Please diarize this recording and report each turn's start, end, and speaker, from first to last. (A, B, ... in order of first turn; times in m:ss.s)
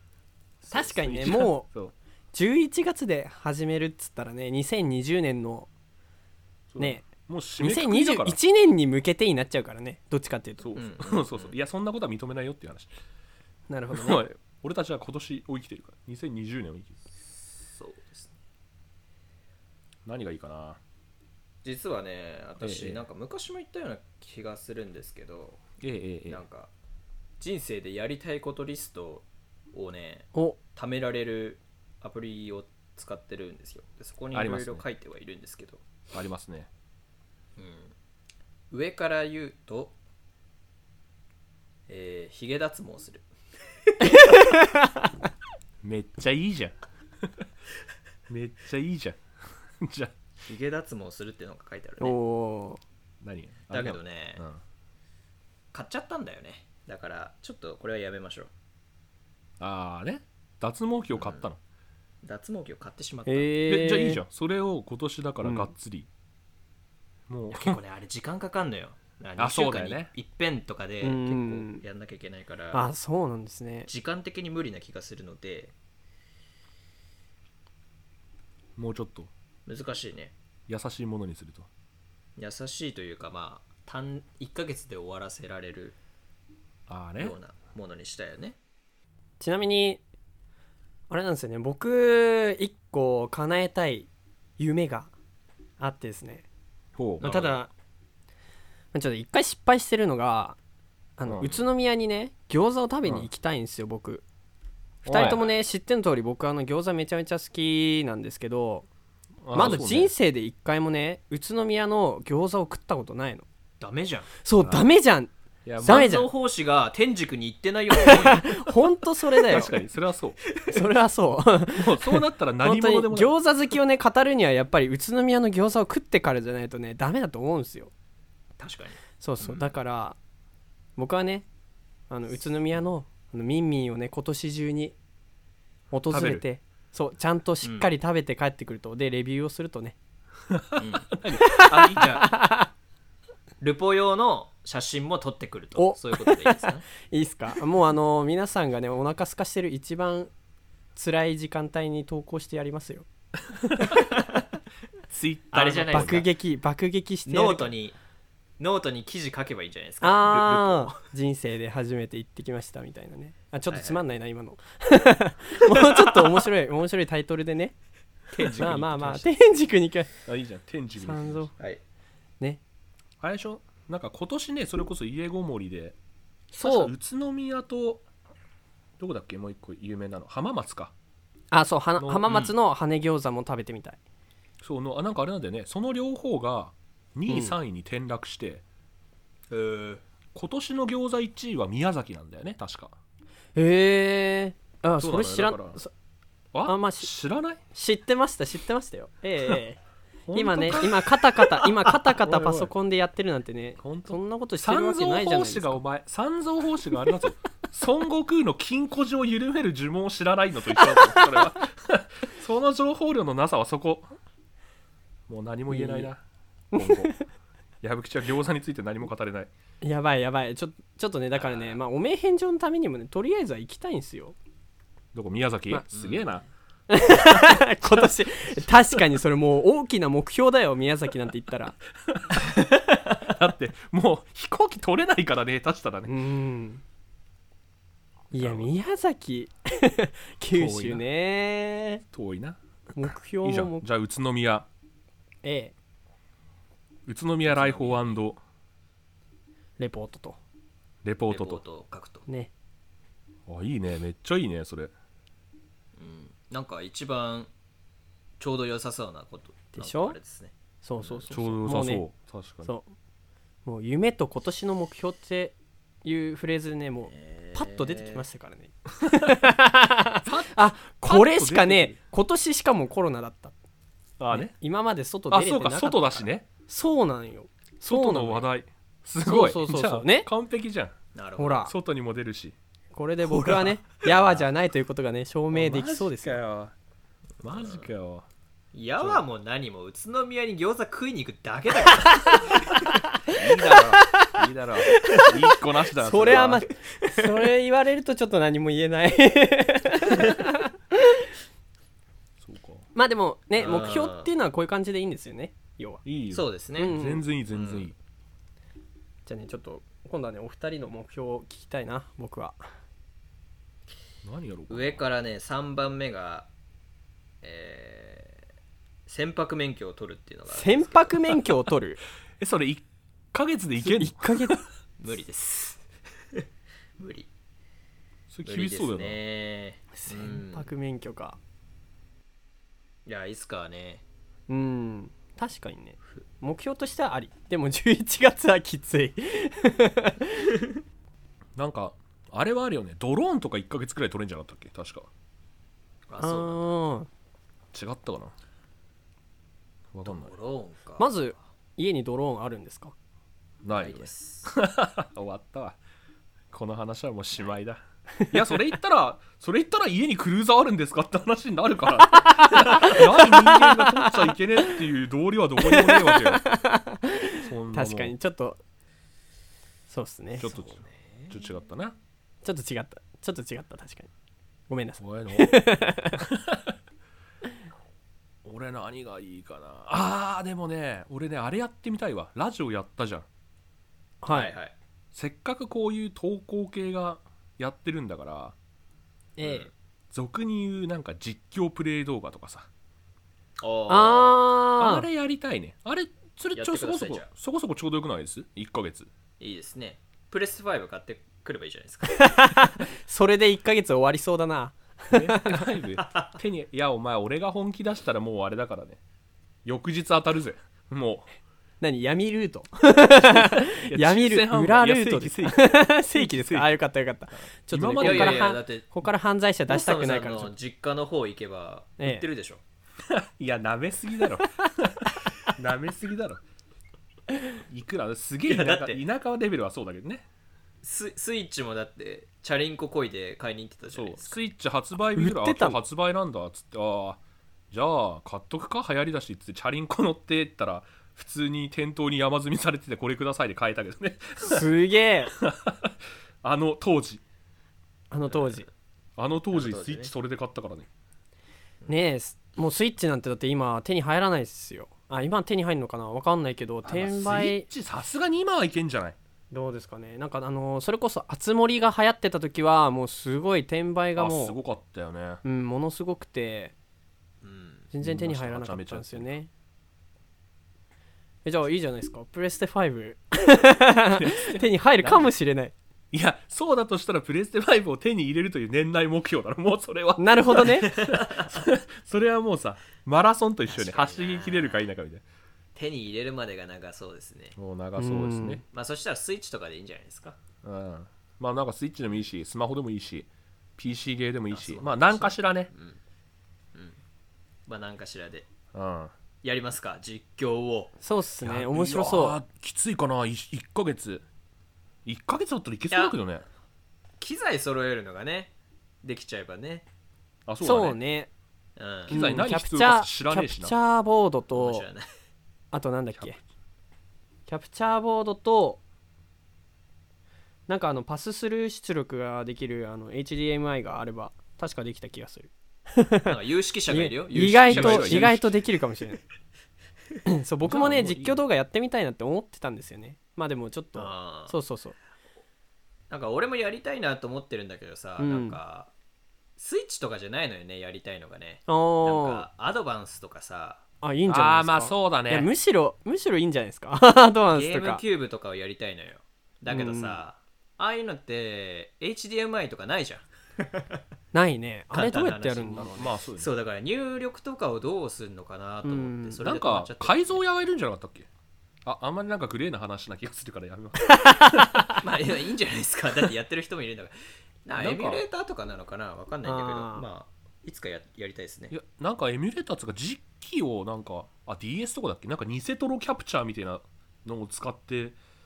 0:00.6-0:01.9 A
0:00.7-0:01.7 B
0:02.3-0:05.7 B
0:06.7-0:08.4 A
0:06.8-0:07.1 B
0:07.6-0:10.7 B
0:10.6-0:12.9 A
0:10.8-0:11.6 C
0:13.7-0:14.2 B
0:13.9-0:17.0 A
0:17.3-0:18.4 C
0:20.0-0:20.8 A
0:21.6-0:25.6 C
0:22.6-0:23.0 A
0:25.8-0:26.4 A
0:26.3-0:26.7 C
0:27.4-0:35.8 C
0:34.3-0:34.8 A
0:36.1-0:36.7 A
0:37.6-0:37.9 C
0:38.7-0:40.0 C
0:41.9-0:43.3 C
0:43.9-0:44.2 C
0:44.0-0:45.1 B
0:45.8-0:47.4 A
0:48.3-0:50.2 A
0:50.4-0:52.2 C
0:52.0-0:52.8 B
0:53.2-0:54.6 A
0:53.7-0:54.4 C
0:55.7-0:58.5 C
0:59.6-1:01.6 A
1:01.2-1:01.5 C
1:02.2-1:03.6 C
1:03.3-1:04.2 B
1:03.7-1:06.1 A
1:05.4-1:05.7 B
1:07.3-1:07.8 A
1:07.5-1:12.9 C
1:09.4-1:10.1 A
1:11.0-1:11.8 B
1:12.7-1:13.9 B
1:13.9-1:15.7 C
1:18.8-1:19.3 A
1:19.7-1:20.3 C
1:20.7-1:21.7 A
1:22.4-1:26.0 C
1:26.9-1:27.4 A
1:27.2-1:28.6 C
1:29.4-1:30.0 B
1:31.1-1:35.1 B
1:35.8-1:36.5 B
1:37.0-1:37.3 A
1:37.2-1:37.6 C
1:37.2-1:37.7 B
1:38.9-1:40.6 B
1:41.2-1:44.2 B
1:41.3-1:41.6 A
1:45.0-1:45.4 A
1:45.0-1:48.9 B
1:45.2-1:45.5 C
1:49.4-1:50.1 A
1:49.5-1:53.4 B
1:53.8-1:54.3 C
1:54.4-1:56.3 B
1:54.6-1:54.9 A
1:55.6-1:56.1 A
1:55.8-1:58.7 C
1:58.0-1:59.7 B
1:59.5-2:00.4 A
1:59.5-1:59.8 C
2:00.5-2:00.9 C
2:00.7-2:07.9 B
2:01.7-2:03.4 A
2:08.6-2:09.6 C
2:09.2-2:10.2 B
2:11.0-2:11.5 B
2:12.1-2:15.0 B
2:15.9-2:20.0 B
2:16.1-2:16.4 A
2:17.6-2:17.9 C
2:20.5-2:22.2 A
2:20.8-2:22.4 C
2:21.4-2:22.7 B
2:23.6-2:26.9 C
2:25.8-2:30.3 B
2:31.0-2:33.1 B
2:33.5-2:34.0 A
2:35.1-2:36.3 A
2:35.5-2:36.3 C
2:35.9-2:37.7 B
2:37.3-2:38.0 C
2:38.6-2:40.9 C
2:40.0-2:47.8 B
2:40.3-2:40.6 A
2:43.7-2:44.0 C
2:45.6-2:46.4 C
2:48.3-2:49.3 C
2:48.5-2:50.1 B
2:50.2-2:51.5 A
2:51.0-2:51.5 B
2:53.2-2:56.0 A
2:56.5-2:56.9 B
2:56.6-2:58.0 A
2:59.0-3:00.9 A
3:01.5-3:04.0 B
3:02.0-3:02.3 A
3:02.3-3:02.6 C
3:04.6-3:08.6 A
3:07.3-3:07.6 B
3:09.5-3:10.0 C
3:10.3-3:12.9 A
3:13.6-3:15.9 B
3:15.0-3:15.8 A
3:16.5-3:17.6 A
3:16.6-3:17.1 B
3:17.7-3:19.8 B
3:20.3-3:22.7 A
3:20.3-3:25.8 B
3:23.8-3:34.1 A
3:30.9-3:31.4 B
3:35.3-3:36.2 A
3:35.7-3:36.1 B
3:36.7-3:37.2 B
3:36.8-3:37.1 A
3:37.8-3:39.5 A
3:39.8-3:44.4 B
3:41.4-3:41.8 C
3:45.1-3:46.4 A
3:45.9-3:46.4 C
3:46.9-3:51.8 B
3:52.0-3:56.1 A
3:56.1-3:56.8 B
3:58.3-4:02.0 B
3:58.4-3:58.7 A
4:00.5-4:01.0 A
4:02.1-4:02.6 A
4:03.0-4:03.9 B
4:03.4-4:04.7 A
4:05.4-4:05.7 B
4:07.1-4:08.4 A
4:07.4-4:08.1 C
4:09.8-4:10.4 B
4:11.0-4:11.6 A
4:11.3-4:12.3 C
4:13.5-4:14.9 A
4:16.0-4:17.5 C
4:18.4-4:21.3 C
4:19.7-4:20.2 B
4:20.8-4:22.0 B
4:21.3-4:22.7 A
4:22.6-4:22.9 B
4:23.6-4:33.5 B
4:27.1-4:28.2 C
4:29.1-4:29.4 A
4:30.2-4:32.0 A
4:34.2-4:34.5 A
4:34.3-4:38.5 B
4:35.3-4:36.5 A
4:37.8-4:41.0 A
4:39.2-4:40.3 B
4:41.2-4:41.7 C
4:41.4-4:41.7 B
4:41.6-4:42.6 A
4:42.9-4:46.4 B
4:43.3-4:44.4 A
4:45.5-4:46.8 A
4:47.4-4:48.3 A
4:47.6-4:47.9 C
4:48.7-4:52.8 C
4:49.0-4:49.2 A
4:53.3-4:55.3 B
4:53.3-4:56.6 A
4:56.0-5:01.2 B
4:56.2-4:56.5 C
4:57.0-4:57.4 C
5:02.4-5:02.9 A
5:03.0-5:06.0 B
5:03.6-5:04.3 C
5:06.0-5:08.0 A
5:06.3-5:07.0 C
5:06.8-5:07.2 B
5:07.5-5:07.9 C
5:09.3-5:12.6 B
5:14.2-5:15.0 A
5:14.7-5:16.5 C
5:17.4-5:18.4 C
5:19.1-5:21.4 C
5:20.5-5:22.0 B
5:22.4-5:24.6 A
5:23.8-5:24.6 B
5:25.0-5:26.4 C
5:27.0-5:27.3 C
5:28.3-5:29.2 A
5:28.5-5:30.7 C
5:30.0-5:31.4 B
5:33.1-5:34.0 C
5:34.5-5:40.6 B
5:41.6-5:45.1 A
5:46.1-5:46.7 C
5:46.2-5:47.1 B
5:47.7-5:48.3 A
5:49.9-5:50.3 A
5:50.0-5:51.2 C
5:51.0-5:52.9 B
5:53.6-5:55.8 A
5:53.7-5:54.5 C
5:56.5-6:06.4 A
6:02.3-6:04.3 B
6:05.6-6:08.6 B
6:07.4-6:08.1 A
6:09.9-6:10.5 B
6:10.4-6:12.0 A
6:10.4-6:11.4 C
6:12.4-6:14.1 B
6:14.7-6:16.2 B
6:15.0-6:16.8 A
6:18.4-6:23.3 A
6:24.2-6:24.5 B
6:24.3-6:24.7 C
6:25.1-6:28.6 A
6:29.4-6:29.7 B
6:29.4-6:29.7 C
6:30.1-6:32.7 A
6:33.6-6:34.4 C
6:33.9-6:35.1 B
6:34.8-6:39.1 A
6:36.6-6:37.3 C
6:39.4-6:42.5 C
6:42.1-6:45.7 B
6:45.1-6:49.0 A
6:46.0-6:46.3 C
6:49.6-6:51.3 A
6:51.8-7:00.5 B
6:53.3-6:56.8 A
6:57.7-6:58.5 A
6:58.0-6:58.9 C
6:59.7-7:02.6 C
7:02.0-7:02.2 B
7:03.0-7:06.4 A
7:07.7-7:10.2 A
7:08.5-7:09.0 C
7:10.8-7:14.4 C
7:13.9-7:17.2 A
7:15.2-7:15.8 B
7:17.7-7:24.7 A
7:24.4-7:25.3 B
7:25.4-7:27.2 A
7:28.1-7:28.7 B
7:28.3-7:28.6 C
7:29.2-7:30.9 A
7:29.5-7:30.1 C
7:31.9-7:37.7 B
7:36.8-7:39.2 A
7:39.5-7:44.6 B
7:44.2-7:45.4 A
7:45.4-7:46.7 B
7:47.4-7:47.9 C
7:47.9-7:49.5 B
7:48.0-7:49.3 A
7:51.4-7:55.7 B
7:54.1-7:55.3 A
7:56.1-8:05.2 A
8:00.2-8:00.9 B
8:00.9-8:01.6 C
8:03.7-8:04.9 C
8:05.8-8:07.6 C
8:07.6-8:08.6 A
8:08.0-8:08.6 B
8:08.7-8:10.4 C
8:10.6-8:15.7 A
8:14.5-8:16.0 C
8:16.7-8:17.0 C
8:17.7-8:18.5 C
8:18.7-8:19.1 A
8:19.4-8:20.9 C
8:21.0-8:22.4 B
8:21.4-8:24.2 A
8:25.0-8:26.5 A
8:25.9-8:26.2 C
8:27.2-8:28.5 C
8:29.0-8:29.9 C
8:30.5-8:31.0 A
8:30.6-8:31.3 B
8:31.8-8:32.2 C
8:32.1-8:33.8 A
8:32.1-8:34.9 B
8:34.5-8:35.1 C
8:35.7-8:36.4 B
8:36.1-8:36.4 A
8:37.5-8:38.8 B
8:40.7-8:46.3 B
8:46.2-8:48.4 C
8:46.9-8:49.2 B
8:47.4-8:48.5 A
8:50.3-8:55.0 B
8:50.6-8:51.4 A
8:54.0-8:54.6 C
8:56.1-8:58.9 C
8:58.2-8:58.6 B
8:59.6-9:03.8 C
9:01.7-9:02.5 B
9:04.0-9:08.0 B
9:04.3-9:05.5 A
9:07.5-9:13.8 C
9:09.7-9:10.2 B
9:14.3-9:16.1 B
9:14.9-9:20.4 C
9:15.8-9:16.5 A
9:18.8-9:19.4 B
9:19.4-9:21.3 A
9:21.8-9:24.9 A
9:24.0-9:25.0 B
9:25.0-9:31.7 C
9:27.8-9:28.2 A
9:29.4-9:30.0 B
9:31.7-9:38.2 A